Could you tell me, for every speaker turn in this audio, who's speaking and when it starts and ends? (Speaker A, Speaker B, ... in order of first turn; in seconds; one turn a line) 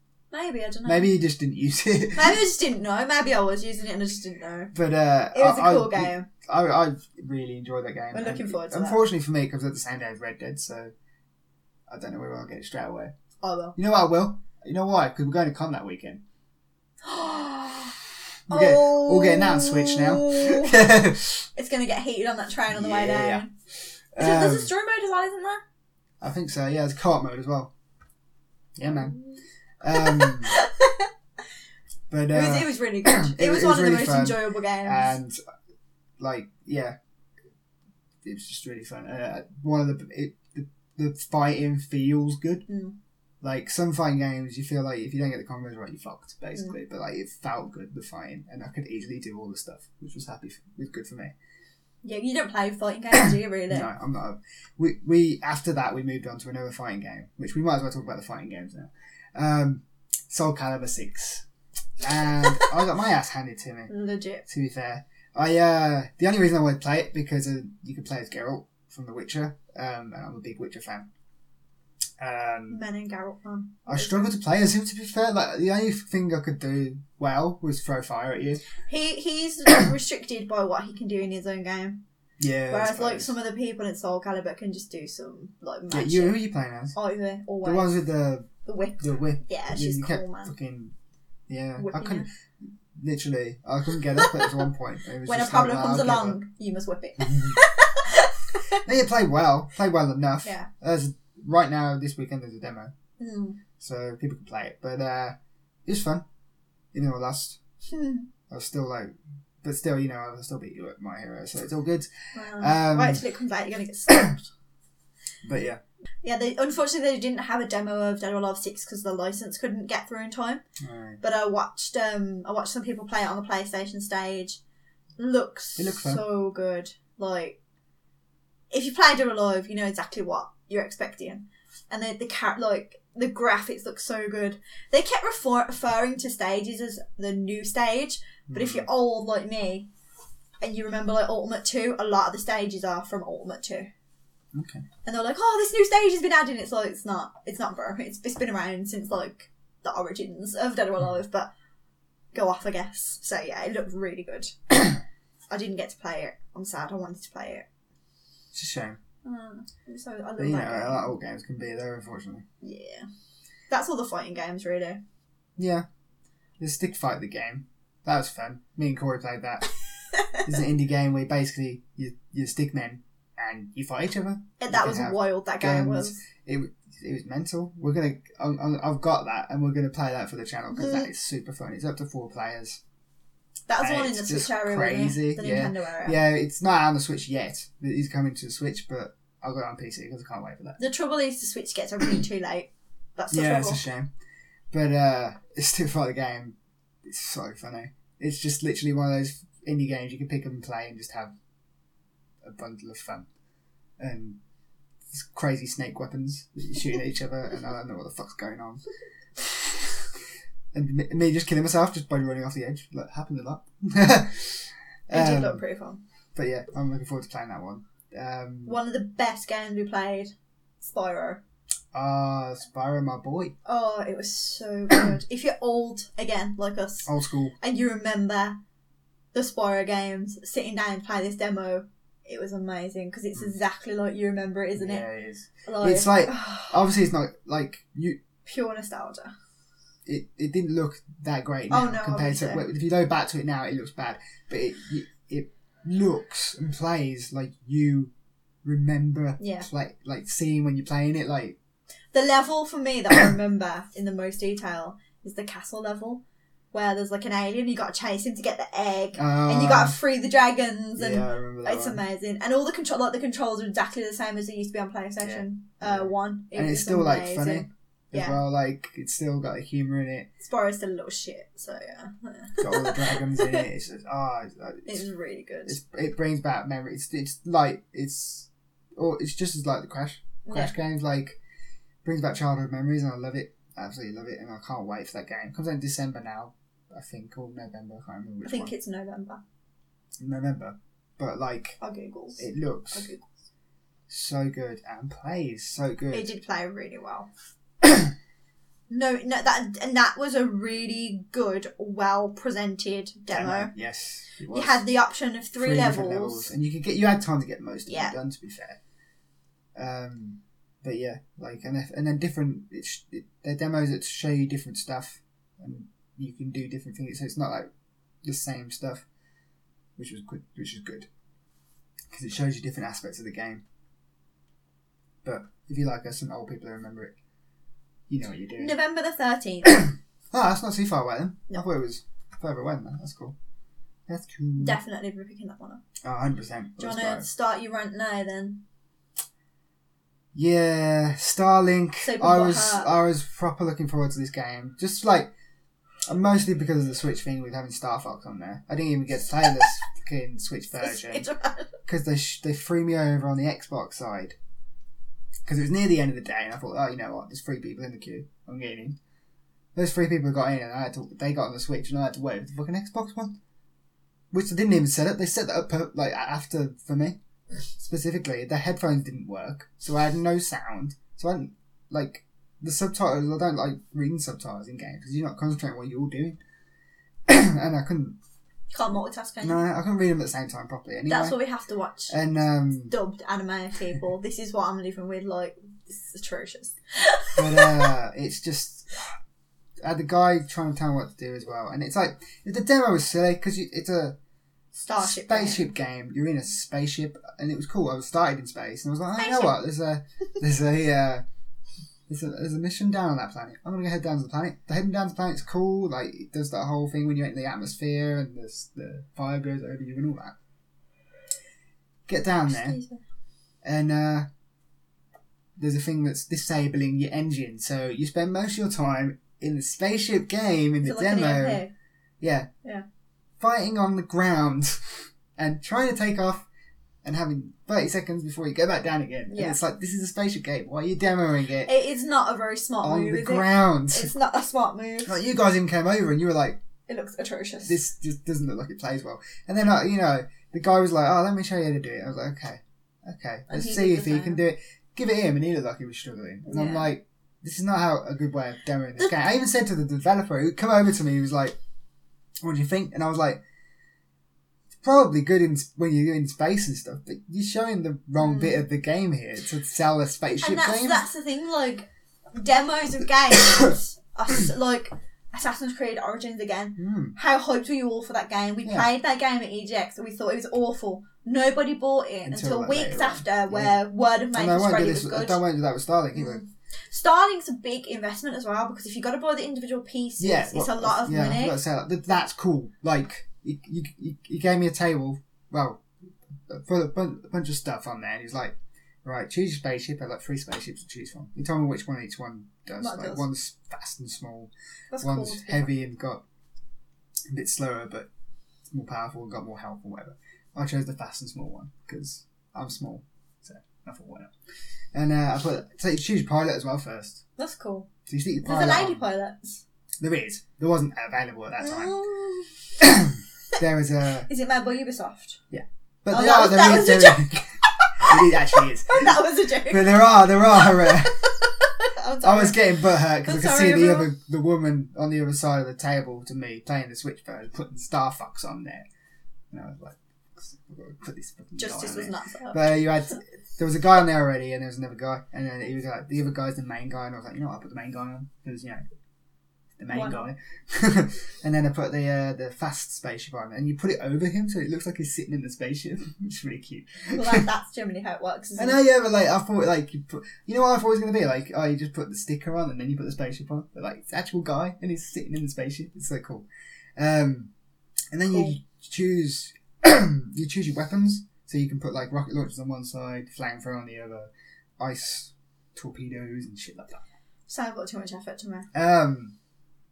Speaker A: 0.3-1.1
Speaker B: 0.8-2.4
Speaker A: 2.1-4.7
Speaker B: 4.7-10.9
Speaker A: 5.3-6.3
Speaker A: 8.1-9.0
Speaker B: 11.9-13.1
Speaker A: 13.4-13.8
Speaker B: 13.8-16.2
Speaker A: 17.0-17.9
Speaker B: 18.5-21.5
Speaker A: 18.5-20.8
Speaker A: 21.6-23.5
Speaker B: 22.7-23.4
Speaker B: 24.1-24.7
Speaker A: 24.2-25.6
Speaker B: 26.2-27.7
Speaker B: 28.8-29.2
Speaker A: 28.9-29.2
Speaker B: 29.8-30.6
Speaker A: 29.9-31.1
Speaker B: 32.1-35.4
Speaker A: 32.3-35.2
Speaker B: 36.2-37.0
Speaker B: 38.2-42.6
Speaker A: 42.7-43.0
Speaker B: 43.4-51.3
Speaker A: 52.0-53.9
Speaker B: 53.7-61.5
Speaker B: 62.0-63.9
Speaker A: 63.9-64.5
Speaker B: 64.5-71.1
Speaker B: 72.2-72.8
Speaker A: 72.7-74.3
Speaker B: 73.9-78.6
Speaker A: 78.9-82.0
Speaker B: 82.4-83.3
Speaker A: 82.7-86.4
Speaker B: 85.9-87.0
Speaker A: 87.0-88.0
Speaker B: 87.6-91.0
Speaker A: 88.6-90.5
Speaker B: 91.5-92.3
Speaker A: 91.8-92.3
Speaker B: 93.0-96.4
Speaker A: 94.2-94.5
Speaker A: 95.3-98.8
Speaker B: 97.2-97.6
Speaker B: 98.8-102.9
Speaker A: 103.2-103.6
Speaker B: 103.8-106.2
Speaker B: 106.9-107.6
Speaker A: 107.9-108.3
Speaker B: 108.5-113.2
Speaker A: 112.3-114.5
Speaker B: 114.1-114.4
Speaker B: 115.4-115.8
Speaker A: 116.2-120.6
Speaker B: 120.8-121.2
Speaker A: 121.2-124.6
Speaker A: 125.2-127.6
Speaker B: 125.8-126.2
Speaker A: 128.7-139.9
Speaker B: 138.5-138.9
Speaker A: 140.6-143.9
Speaker B: 144.5-144.8
Speaker A: 145.1-151.5
Speaker A: 152.3-154.6
Speaker A: 155.5-157.7
Speaker B: 158.5-159.0
Speaker A: 159.2-161.1
Speaker B: 160.4-162.4
Speaker A: 162.6-163.1
Speaker A: 163.7-165.0
Speaker B: 165.6-165.8
Speaker B: 166.6-169.7
Speaker B: 170.4-182.8
Speaker A: 174.6-176.2
Speaker A: 180.7-181.1
Speaker A: 183.7-186.2
Speaker B: 183.8-190.8
Speaker A: 190.8-193.8
Speaker B: 193.3-194.1
Speaker B: 194.7-201.3
Speaker B: 202.4-203.3
Speaker B: 204.0-204.4
Speaker B: 205.1-208.8
Speaker B: 209.4-209.9
Speaker B: 210.7-215.6
Speaker A: 215.1-216.0
Speaker B: 216.3-218.8
Speaker A: 218.7-221.4
Speaker B: 221.9-223.6
Speaker A: 223.7-228.6
Speaker B: 227.1-227.5
Speaker A: 229.3-235.1
Speaker B: 234.8-238.2
Speaker A: 235.7-236.9
Speaker A: 238.4-239.3
Speaker B: 240.1-248.1
Speaker A: 241.7-242.6
Speaker B: 248.6-251.6
Speaker A: 249.4-249.7
Speaker A: 252.1-268.4
Speaker B: 259.1-260.0
Speaker B: 261.0-262.0
Speaker B: 265.2-270.3
Speaker A: 270.4-273.6
Speaker B: 272.6-275.0
Speaker A: 274.9-275.8
Speaker B: 275.7-281.4
Speaker A: 280.5-280.7
Speaker B: 282.0-288.7
Speaker A: 288.4-289.4
Speaker B: 290.2-291.8
Speaker A: 291.8-293.3
Speaker B: 292.4-293.1
Speaker B: 294.1-296.3
Speaker A: 296.1-297.3
Speaker B: 297.8-298.1
Speaker A: 298.9-303.7
Speaker B: 303.3-304.9
Speaker A: 304.5-306.5
Speaker B: 305.6-308.8
Speaker A: 307.9-308.1
Speaker B: 309.8-317.7
Speaker B: 318.2-319.1
Speaker B: 320.0-321.1
Speaker B: 322.1-323.6
Speaker B: 325.2-327.1
Speaker B: 328.1-328.8
Speaker A: 328.6-329.9
Speaker B: 329.8-333.4
Speaker B: 334.1-334.8
Speaker A: 334.6-335.8
Speaker B: 336.0-337.3
Speaker A: 336.8-338.6
Speaker B: 340.3-345.3
Speaker A: 342.0-342.9
Speaker B: 346.1-351.3
Speaker A: 350.8-351.7
Speaker B: 351.9-354.4
Speaker B: 355.5-359.0
Speaker B: 359.8-363.4
Speaker B: 364.3-367.2
Speaker B: 367.8-376.4
Speaker B: 377.3-378.2
Speaker A: 378.7-379.6
Speaker B: 379.4-381.4
Speaker A: 381.1-382.2
Speaker B: 382.1-382.9
Speaker A: 382.9-387.9
Speaker B: 387.4-388.9
Speaker B: 389.8-394.2
Speaker A: 394.7-395.6
Speaker B: 395.0-401.2
Speaker A: 399.2-399.5
Speaker B: 402.1-410.4
Speaker B: 412.1-412.8
Speaker A: 412.5-413.0
Speaker B: 413.6-414.3
Speaker B: 415.6-421.6
Speaker A: 420.8-421.7
Speaker B: 422.2-422.5
Speaker B: 423.4-426.5
Speaker B: 427.0-431.7
Speaker A: 429.3-429.6
Speaker A: 431.6-435.2
Speaker B: 432.8-434.1
Speaker B: 435.1-436.6
Speaker A: 436.9-437.8
Speaker B: 437.7-451.6
Speaker A: 443.5-444.4
Speaker A: 446.5-446.9
Speaker B: 452.4-453.4
Speaker B: 454.8-461.1
Speaker A: 458.2-458.6
Speaker A: 460.4-475.4
Speaker B: 466.8-467.2
Speaker B: 468.6-468.9
Speaker B: 472.3-476.4
Speaker A: 476.1-481.6
Speaker B: 480.2-485.8
Speaker B: 486.5-496.2
Speaker A: 492.8-493.3
Speaker A: 494.9-495.7
Speaker B: 497.3-498.1
Speaker B: 498.7-504.3
Speaker B: 504.9-507.2
Speaker A: 507.4-507.9
Speaker B: 508.1-509.0
Speaker A: 508.4-509.6
Speaker B: 510.0-512.0
Speaker A: 511.6-512.6
Speaker B: 512.8-514.3
Speaker A: 514.3-515.4
Speaker B: 515.5-521.2
Speaker A: 516.1-517.3
Speaker A: 517.8-520.0
Speaker A: 520.5-522.7
Speaker B: 522.2-528.9
Speaker A: 523.2-524.1
Speaker B: 529.5-538.8
Speaker A: 531.6-532.8
Speaker B: 539.8-547.5
Speaker A: 539.9-540.2
Speaker A: 547.1-548.8
Speaker B: 548.6-556.5
Speaker B: 557.0-557.5
Speaker B: 558.1-567.0
Speaker A: 567.5-568.7
Speaker B: 568.7-569.4